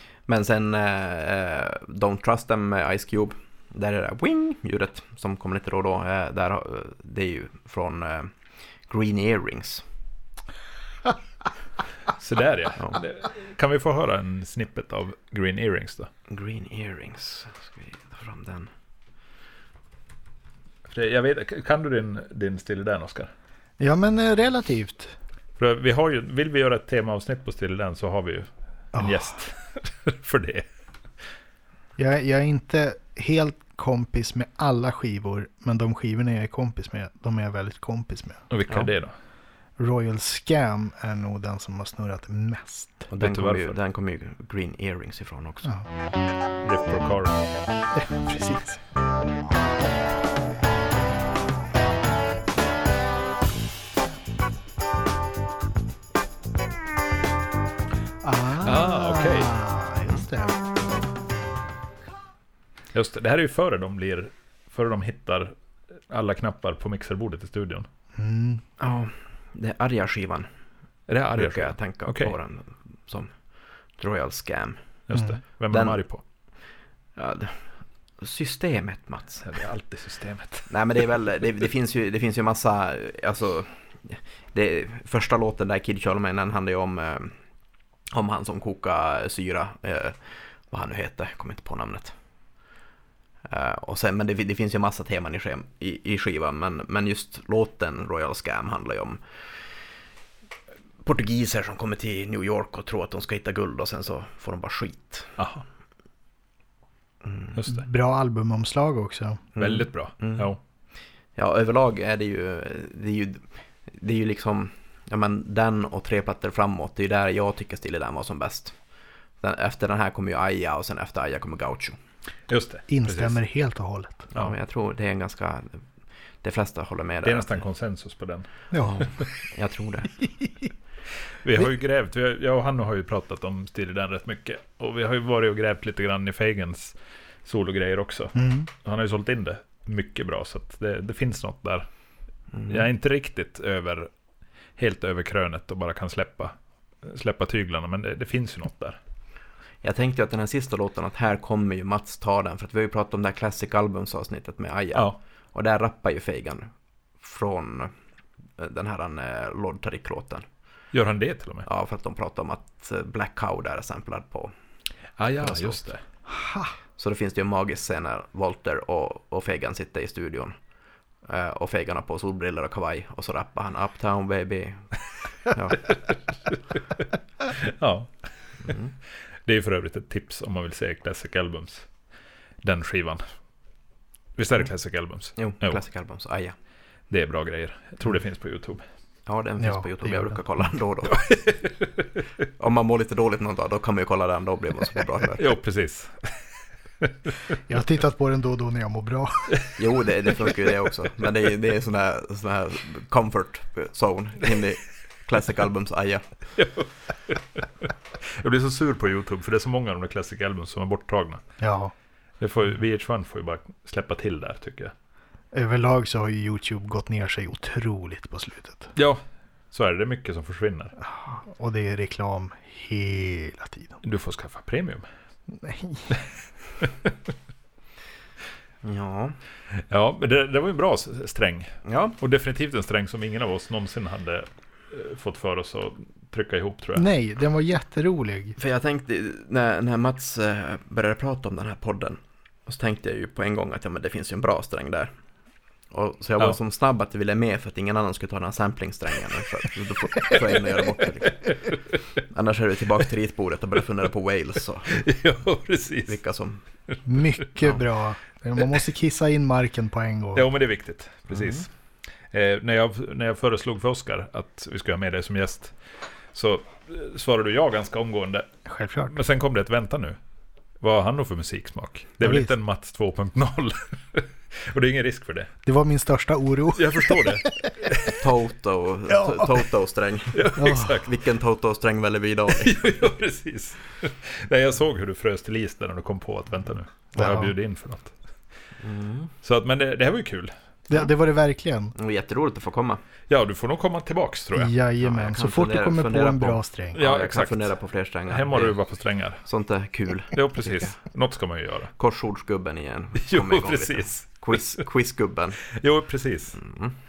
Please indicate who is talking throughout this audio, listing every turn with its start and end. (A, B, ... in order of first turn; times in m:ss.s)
0:00.3-0:08.3 A
0:08.9-0:09.8 A
0:12.2-0:16.1 B
0:16.3-0:18.7 A
0:20.9-0:23.3 B
0:23.8-0:25.2 C
0:25.6-0:30.6 B
0:28.9-0:29.3 C
0:32.0-0:38.4 C
0:38.5-0:39.1 B
0:39.8-0:43.1 C
0:43.1-0:45.7 A
0:43.2-0:43.8 B
0:46.6-0:47.5 B
0:47.9-0:48.8 C
0:58.2-1:00.6 C
0:58.6-0:59.5 B
1:02.9-1:05.5 B
1:06.1-1:07.9 B
1:08.2-1:08.6 C
1:08.8-1:10.5 A
1:11.1-1:12.4 B
1:11.3-1:13.3 A
1:14.0-1:14.8 A
1:15.1-1:16.2 B
1:15.7-1:16.0 A
1:17.2-1:17.6 A
1:18.2-1:19.5 A
1:19.4-1:20.7 B
1:20.7-1:27.3 A
1:28.1-1:32.1 A
1:33.5-1:39.2 A
1:41.0-1:45.4 A
1:45.4-1:45.6 B
1:47.2-1:47.6 A
1:47.6-1:47.9 B
1:47.7-1:49.4 C
1:49.6-1:50.5 A
1:49.6-1:50.6 B
1:51.4-1:58.8 A
1:59.4-2:02.0 A
2:02.5-2:03.4 B
2:02.9-2:04.3 C
2:04.3-2:05.8 A
2:06.4-2:07.6 A
2:07.2-2:08.7 B
2:08.7-2:09.0 C
2:08.9-2:10.1 A
2:10.2-2:10.7 C
2:11.4-2:21.9 B
2:18.4-2:18.7 C
2:22.5-2:22.9 A
2:22.7-2:24.1 B
2:24.8-2:29.0 B
2:29.8-2:36.7 A
2:37.2-2:37.9 A
2:38.6-2:40.5 A
2:40.9-2:41.7 B
2:41.7-2:44.5 A
2:45.2-2:46.0 B
2:45.4-2:45.8 A
2:46.3-2:46.7 C
2:47.0-2:50.6 A
2:51.2-2:54.8 A
2:55.5-2:55.8 A
2:57.5-2:58.1 B
2:58.7-2:58.9 A
2:59.5-3:01.9 B
3:02.6-3:03.2 B
3:04.4-3:05.8 B
3:05.4-3:06.6 A
3:07.1-3:08.8 B
3:09.3-3:11.2 A
3:09.6-3:10.4 C
3:11.1-3:11.9 B
3:12.6-3:15.4 A
3:15.4-3:16.3 B
3:17.7-3:19.5 C
3:19.8-3:26.2 A
3:26.6-3:31.4 B
3:31.6-3:31.9 C
3:32.4-3:34.9 B
3:35.5-3:38.9 C
3:39.0-3:39.2 B
3:39.7-3:41.0 B
3:41.0-3:44.0 C
3:44.0-3:45.1 B
3:45.5-3:46.1 C
3:46.8-3:47.1 B
3:48.8-3:49.4 A
3:49.9-3:57.0 B
3:51.8-3:52.2 A
3:57.0-3:58.6 C
3:58.6-4:05.1 A
4:05.9-4:11.6 A
4:12.3-4:15.0 A
4:14.9-4:16.2 B
4:16.1-4:16.6 A
4:17.1-4:20.5 C
4:20.4-4:21.7 B
4:21.3-4:21.6 A
4:22.3-4:25.7 B
4:26.3-4:28.5 B
4:28.7-4:29.2 C
4:29.1-4:30.2 B
4:30.8-4:35.5 B
4:32.2-4:32.5 C
4:35.7-4:37.6 C
4:36.8-4:38.2 B
4:38.1-4:42.8 A
4:39.1-4:39.5 C
4:40.3-4:41.1 B
4:40.6-4:41.0 C
4:42.6-4:48.1 B
4:47.2-4:47.5 C
4:48.8-4:49.3 A
4:49.4-4:50.5 B
4:50.9-4:51.9 C
4:52.0-4:53.0 A
4:53.3-4:54.7 B
4:54.6-4:57.0 C
4:55.0-4:58.8 A
4:57.0-4:57.7 B
4:58.3-4:59.4 B
4:59.4-5:00.9 A
5:00.3-5:01.9 B
5:02.0-5:05.6 A
5:03.2-5:04.8 B
5:05.7-5:06.6 B
5:06.6-5:06.9 A